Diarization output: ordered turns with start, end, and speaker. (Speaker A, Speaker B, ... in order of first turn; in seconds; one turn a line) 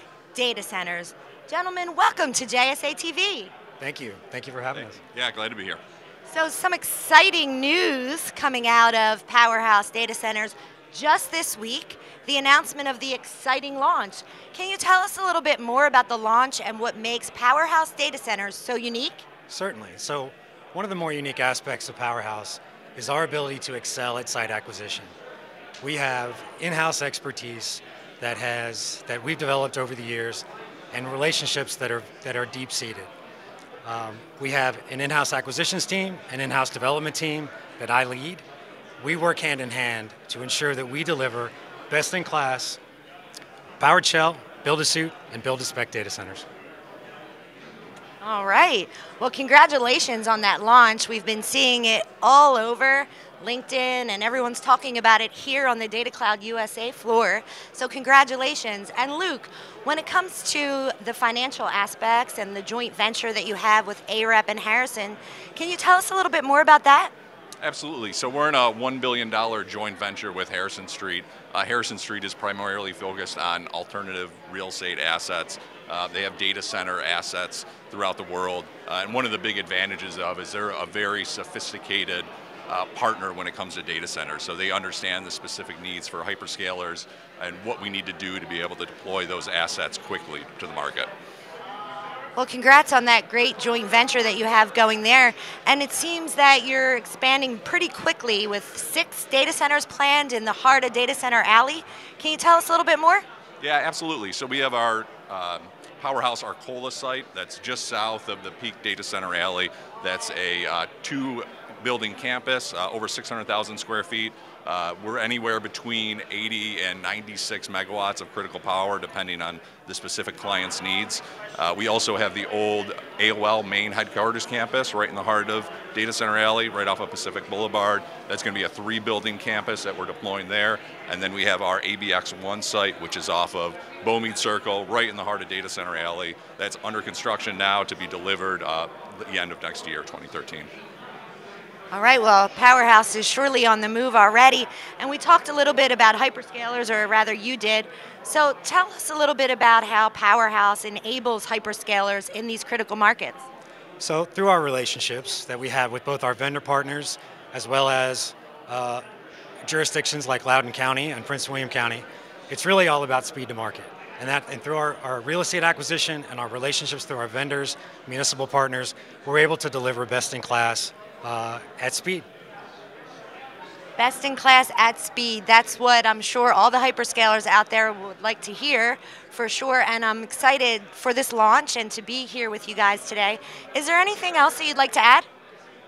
Speaker A: 0.3-3.5
Speaker B: 3.8-5.0
Speaker C: 4.8-5.8
Speaker A: 6.3-19.2
Speaker B: 19.5-25.1
Speaker B: 25.8-33.1
Speaker B: 33.9-38.4
Speaker B: 39.0-42.8
Speaker B: 43.8-46.5
Speaker A: 48.2-67.1
Speaker C: 67.6-91.1
Speaker A: 92.4-103.2
Speaker C: 103.6-140.7
Speaker A: 141.9-153.4
Speaker B: 154.0-159.0
Speaker B: 159.7-172.2
Speaker A: 174.0-185.3